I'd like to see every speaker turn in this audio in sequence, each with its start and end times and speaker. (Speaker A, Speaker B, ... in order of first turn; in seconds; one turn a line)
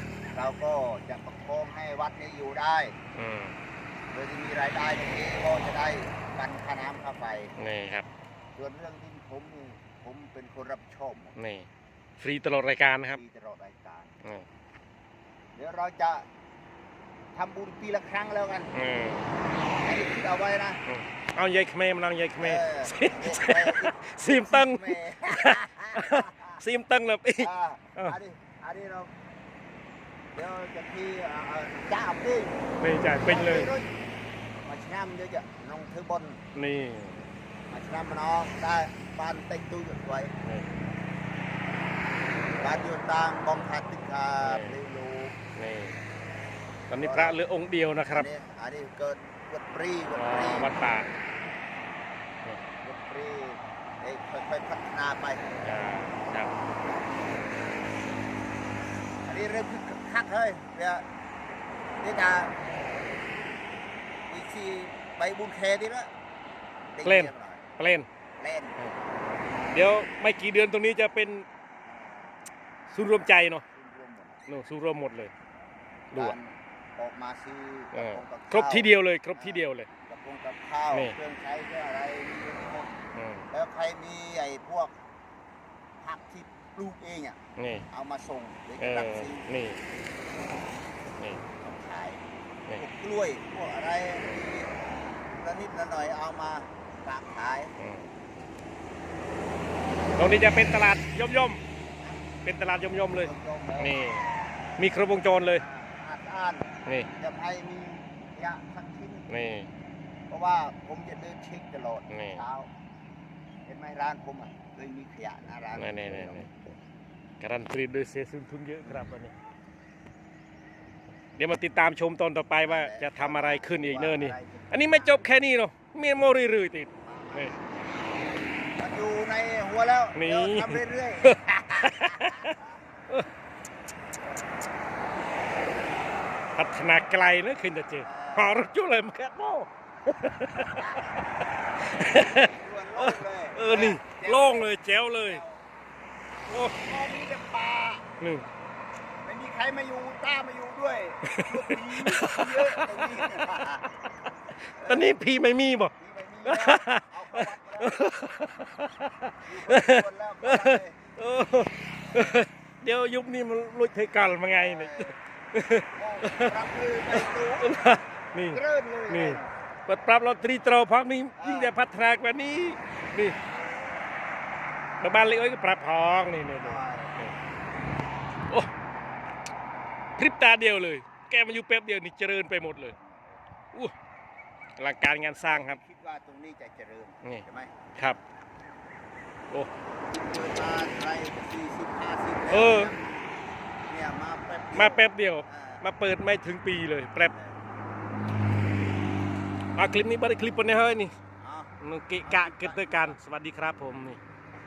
Speaker A: 0.3-3.0
Speaker B: 3.1-3.5
Speaker A: 4.1-7.5
Speaker B: 7.6-8.1
Speaker A: 8.6-11.3
Speaker B: 11.4-11.7
Speaker B: 12.2-13.2
Speaker A: 13.1-14.2
Speaker A: 15.6-16.2
Speaker A: 17.3-18.7
Speaker B: 18.7-19.3
Speaker A: 19.8-20.8
Speaker B: 20.9-28.2
Speaker A: 22.4-26.6
Speaker A: 27.4-29.1
Speaker A: 30.3-32.6
Speaker B: 32.8-33.7
Speaker A: 33.2-33.9
Speaker A: 34.6-36.4
Speaker B: 36.5-37.3
Speaker A: 37.7-40.3
Speaker B: 40.4-40.7
Speaker A: 42.6-45.4
Speaker B: 44.4-44.8
Speaker B: 45.5-46.0
Speaker B: 46.9-48.3
Speaker A: 47.0-47.4
Speaker A: 48.1-50.7
Speaker B: 50.1-51.1
Speaker A: 52.8-55.5
Speaker B: 55.6-56.5
Speaker A: 56.8-57.2
Speaker A: 59.2-61.0
Speaker A: 62.0-62.5
Speaker A: 64.3-66.1
Speaker A: 66.9-67.6
Speaker B: 67.0-68.1
Speaker A: 68.4-68.8
Speaker B: 69.7-71.5
Speaker A: 71.8-72.5
Speaker B: 72.9-73.6
Speaker A: 73.2-74.4
Speaker B: 74.5-75.3
Speaker A: 76.1-84.9
Speaker B: 77.9-79.9
Speaker B: 83.1-83.5
Speaker A: 86.0-87.4
Speaker B: 87.6-87.9
Speaker A: 87.9-89.5
Speaker B: 88.8-89.8
Speaker A: 91.6-92.2
Speaker A: 92.8-94.7
Speaker A: 95.3-97.7
Speaker B: 97.8-98.1
Speaker B: 100.2-101.6
Speaker A: 102.0-102.3
Speaker B: 102.4-104.3
Speaker A: 103.2-104.0
Speaker B: 104.8-105.6
Speaker A: 105.5-109.3
Speaker B: 109.3-109.7
Speaker A: 110.3-112.7
Speaker B: 112.1-112.4
Speaker A: 113.7-116.5
Speaker B: 115.7-116.7
Speaker B: 117.4-119.3
Speaker B: 121.4-127.5
Speaker A: 122.6-125.2
Speaker A: 127.0-127.8
Speaker A: 128.8-132.8
Speaker B: 130.1-132.5
Speaker B: 136.6-141.0
Speaker A: 138.0-138.5
Speaker A: 140.6-141.0
Speaker B: 141.8-145.4
Speaker A: 142.3-145.6
Speaker A: 146.5-148.1
Speaker B: 146.5-146.7
Speaker B: 148.2-148.4
Speaker A: 149.2-153.9
Speaker B: 151.2-153.4
Speaker B: 154.7-155.9
Speaker A: 154.7-155.1
Speaker A: 156.0-158.1
Speaker B: 156.4-166.6
Speaker A: 159.4-161.0
Speaker A: 164.4-165.2
Speaker A: 165.9-169.5
Speaker B: 167.1-173.3
Speaker A: 171.3-171.8
Speaker A: 173.4-174.0
Speaker B: 175.0-177.3
Speaker A: 176.6-177.2
Speaker B: 180.2-182.9
Speaker A: 182.9-183.4
Speaker B: 184.8-185.8
Speaker A: 185.4-187.8
Speaker A: 190.0-193.3
Speaker B: 192.5-192.9
Speaker A: 193.9-195.9
Speaker B: 194.7-197.3
Speaker A: 197.1-197.6
Speaker B: 199.8-201.1
Speaker A: 201.4-203.2
Speaker B: 201.8-204.2